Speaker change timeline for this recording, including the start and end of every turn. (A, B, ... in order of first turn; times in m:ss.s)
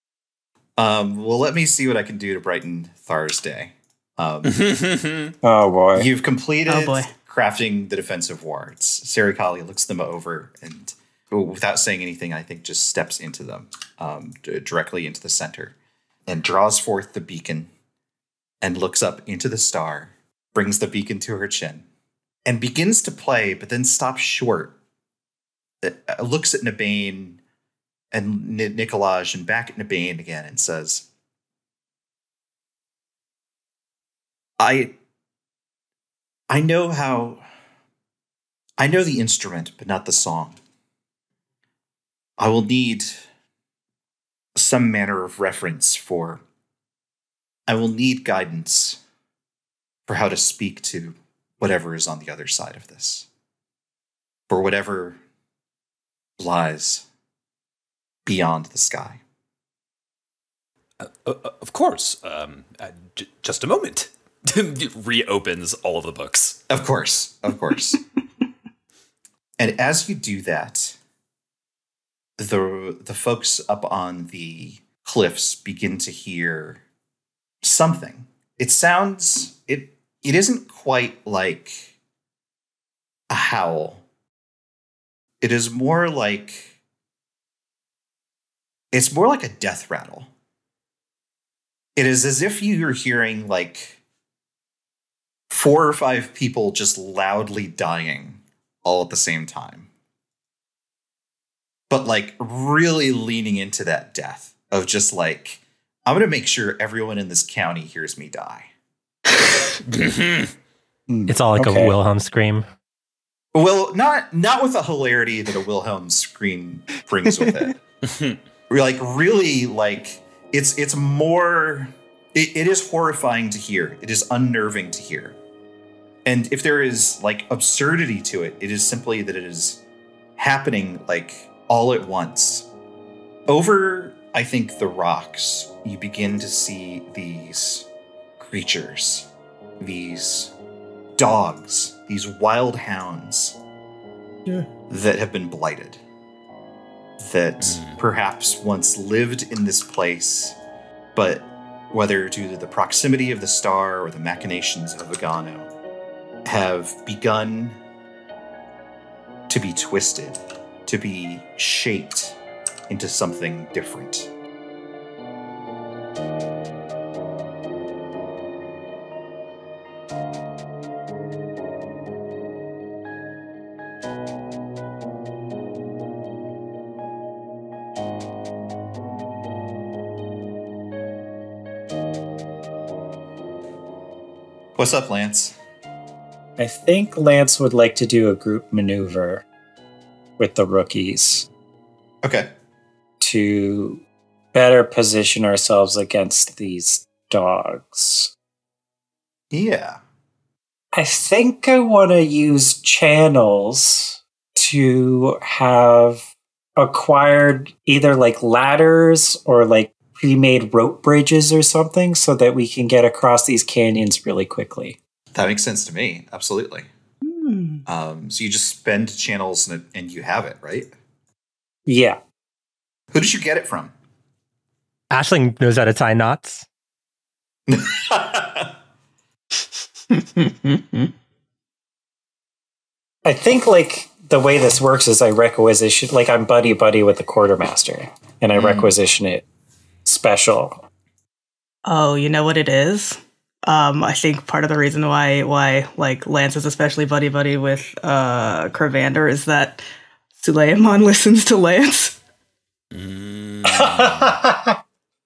0:00.8-0:04.7 A
0:04.5-0:05.3 B
0:05.4-0:06.1 C
0:05.9-0:15.8 A
0:06.7-0:07.1 D
0:16.3-0:17.7 A
0:18.6-0:21.8 A
0:22.4-0:24.8 A
0:25.8-0:27.4 A
0:28.1-0:31.1 A
0:34.6-0:34.9 A
0:36.5-0:37.4 A
0:38.8-0:40.6 A
0:42.4-0:43.2 A
0:44.6-0:46.4 A
0:47.7-0:49.0 A
0:50.1-0:53.3 A
0:54.5-0:55.2 A
0:56.4-0:57.0 A
0:58.2-0:59.2 A
1:01.0-1:06.6 B
1:06.7-1:08.0 A
1:09.6-1:11.0 A
1:12.4-1:16.8 A
1:17.6-1:21.9 A
1:23.3-1:24.0 A
1:25.4-1:26.8 A
1:28.9-1:30.3 A
1:32.0-1:34.0 A
1:35.5-1:39.9 A
1:41.9-1:48.7 A
1:49.9-1:50.5 B
1:51.1-1:51.9 C
1:51.3-1:52.7 E
1:53.5-1:57.8 A
1:58.1-1:58.4 B
1:58.7-2:05.4 A
2:06.2-2:09.8 A
2:10.4-2:12.7 A
2:13.5-2:17.9 A
2:18.4-2:19.3 A
2:19.8-2:20.5 A
2:21.2-2:23.6 A
2:24.9-2:26.0 A
2:27.2-2:30.6 A
2:27.6-2:28.0 B
2:31.2-2:35.7 A
2:36.4-2:37.8 A
2:39.5-2:42.4 A
2:42.9-2:44.3 A
3:04.8-3:05.6 A
3:06.6-3:09.4 C
3:10.4-3:11.5 C
3:12.2-3:12.5 A
3:13.2-3:14.0 C
3:14.5-3:18.3 C
3:19.5-3:20.0 A
3:20.9-3:26.2 C
3:26.8-3:35.0 C
3:35.3-3:36.9 A
3:37.2-3:37.8 D
3:37.9-3:40.9 A
3:41.9-3:42.2 C
3:43.1-3:43.9 A
3:45.1-3:46.6 E
3:47.7-3:48.7 A
3:50.4-3:51.1 D
3:53.2-3:59.4 C
3:58.6-3:58.9 A
4:00.0-4:00.8 C
4:01.9-4:09.8 D
4:10.4-4:12.2 D
4:12.9-4:14.4 B
4:13.6-4:14.8 C